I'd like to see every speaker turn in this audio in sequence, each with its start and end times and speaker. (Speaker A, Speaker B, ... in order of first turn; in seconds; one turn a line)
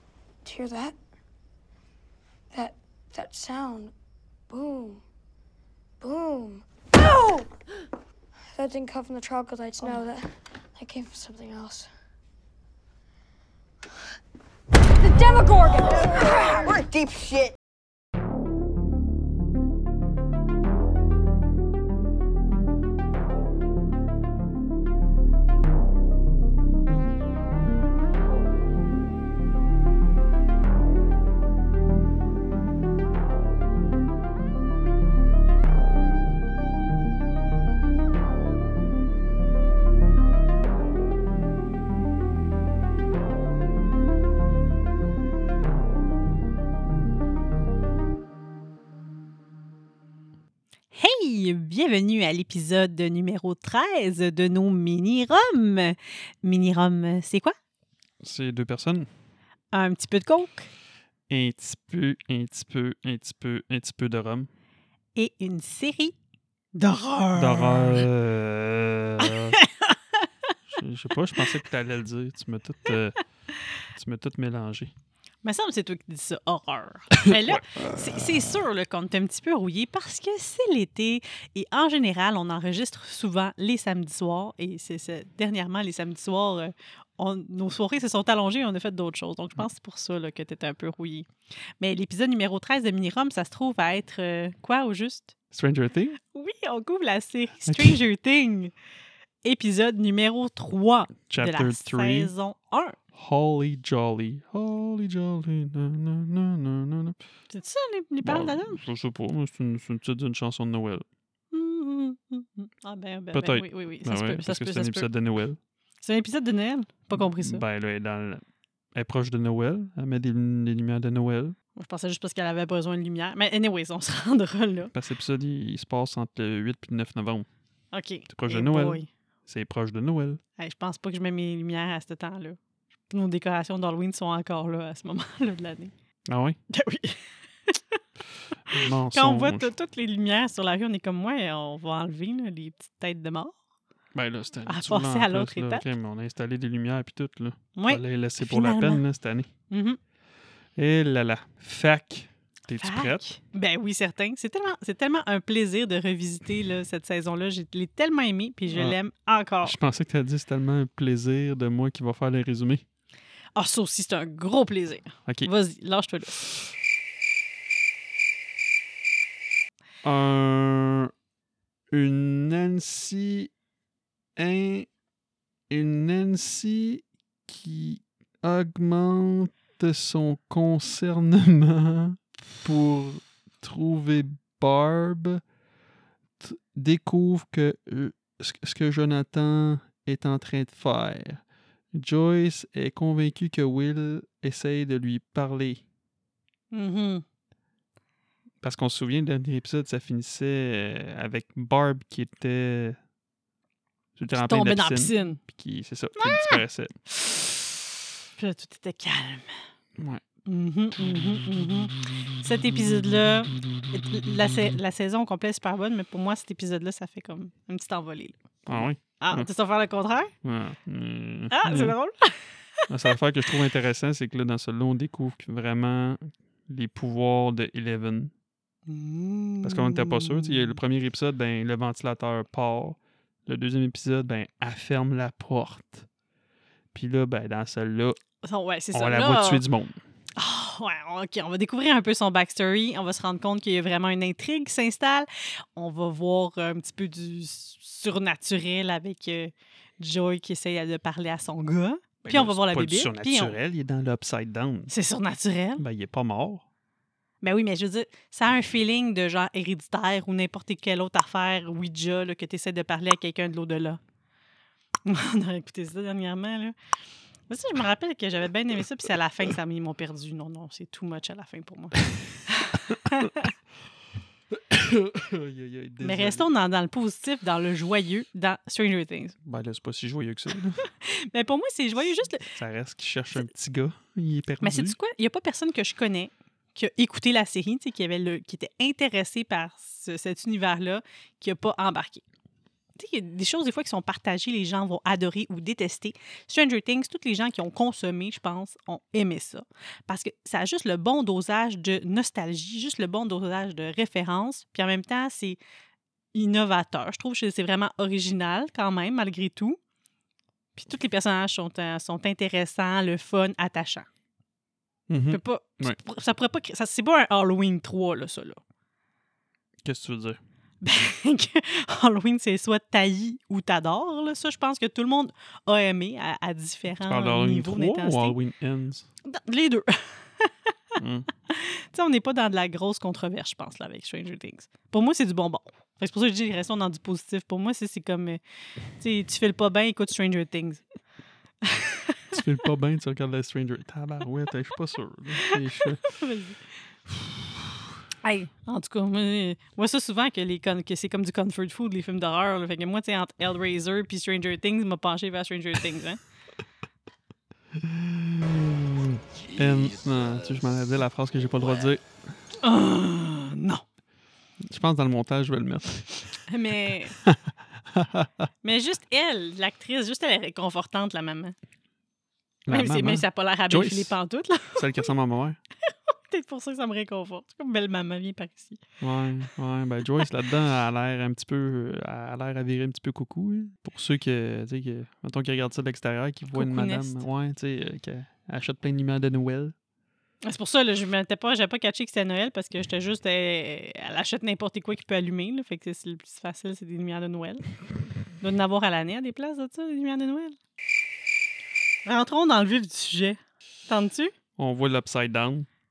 Speaker A: 0.4-1.0
Speaker A: 2.5-3.9
Speaker A: 4.5-5.0
Speaker A: 6.0-7.5
Speaker A: 8.5-11.9
Speaker A: 15.0-17.6
Speaker B: 50.9-57.5
Speaker C: 58.2-59.1
Speaker B: 59.7-60.7
Speaker C: 61.3-64.5
Speaker B: 65.2-66.2
Speaker B: 66.8-68.1
Speaker C: 67.3-69.6
Speaker B: 69.2-70.5
Speaker C: 70.7-73.2
Speaker C: 73.9-74.9
Speaker B: 75.4-91.3
Speaker C: 77.2-78.5
Speaker B: 91.8-95.3
Speaker C: 95.5-96.2
Speaker B: 96.2-98.7
Speaker C: 97.7-98.0
Speaker B: 99.4-103.0
Speaker C: 101.3-102.3
Speaker C: 103.1-107.2
Speaker B: 107.5-108.8
Speaker C: 108.2-111.1
Speaker B: 111.5-115.1
Speaker C: 113.3-115.6
Speaker B: 116.0-117.6
Speaker C: 117.2-118.4
Speaker C: 118.9-121.6
Speaker B: 121.8-124.9
Speaker C: 124.9-127.5
Speaker B: 127.9-129.1
Speaker C: 128.3-130.4
Speaker B: 130.6-132.6
Speaker B: 133.1-135.9
Speaker C: 136.3-136.6
Speaker B: 136.7-138.0
Speaker C: 138.7-139.7
Speaker B: 138.7-143.6
Speaker C: 144.1-149.5
Speaker B: 144.7-145.8
Speaker B: 147.8-149.0
Speaker B: 149.7-150.0
Speaker C: 150.8-153.2
Speaker B: 152.8-159.8
Speaker C: 158.7-159.0
Speaker C: 159.6-162.8
Speaker B: 163.6-166.5
Speaker C: 170.0-171.1
Speaker C: 171.9-173.5
Speaker C: 174.3-174.9
Speaker C: 175.7-185.4
Speaker C: 186.4-195.8
Speaker B: 196.7-197.2
Speaker C: 198.6-203.0
Speaker C: 204.2-206.9
Speaker B: 204.3-205.4
Speaker B: 206.2-207.7
Speaker B: 208.4-209.5
Speaker B: 210.5-218.4
Speaker C: 212.7-213.0
Speaker C: 213.5-214.8
Speaker C: 218.7-219.5
Speaker B: 219.1-220.3
Speaker C: 220.4-222.0
Speaker B: 221.5-222.8
Speaker C: 222.9-228.3
Speaker B: 228.9-230.7
Speaker C: 229.6-236.1
Speaker C: 236.9-238.2
Speaker B: 238.4-239.6
Speaker C: 238.9-240.0
Speaker B: 240.3-253.6
Speaker C: 252.2-254.9
Speaker B: 254.9-255.8
Speaker C: 255.8-256.6
Speaker B: 257.4-264.0
Speaker B: 265.0-266.7
Speaker B: 267.5-273.5
Speaker C: 274.5-276.5
Speaker B: 276.0-279.4
Speaker C: 279.4-280.8
Speaker B: 280.8-282.6
Speaker C: 282.5-285.0
Speaker B: 284.6-292.2
Speaker B: 292.9-305.6
Speaker B: 306.3-309.8
Speaker B: 310.7-314.1
Speaker C: 315.1-316.0
Speaker B: 315.3-318.6
Speaker C: 319.8-320.4
Speaker B: 320.8-328.4
Speaker C: 327.0-329.1
Speaker B: 329.2-338.4
Speaker C: 331.0-331.3
Speaker B: 338.9-340.8
Speaker B: 341.6-342.4
Speaker C: 342.3-346.2
Speaker B: 345.4-346.6
Speaker B: 348.2-356.2
Speaker C: 357.8-362.2
Speaker B: 362.6-363.8
Speaker C: 364.6-366.1
Speaker B: 366.5-367.1
Speaker C: 367.2-368.3
Speaker B: 368.6-371.5
Speaker C: 372.6-374.1
Speaker B: 372.7-375.1
Speaker C: 374.7-375.6
Speaker B: 375.9-378.8
Speaker C: 379.0-389.7
Speaker B: 386.5-387.2
Speaker B: 390.4-397.6
Speaker B: 398.4-400.6
Speaker B: 402.1-404.3
Speaker C: 404.6-405.7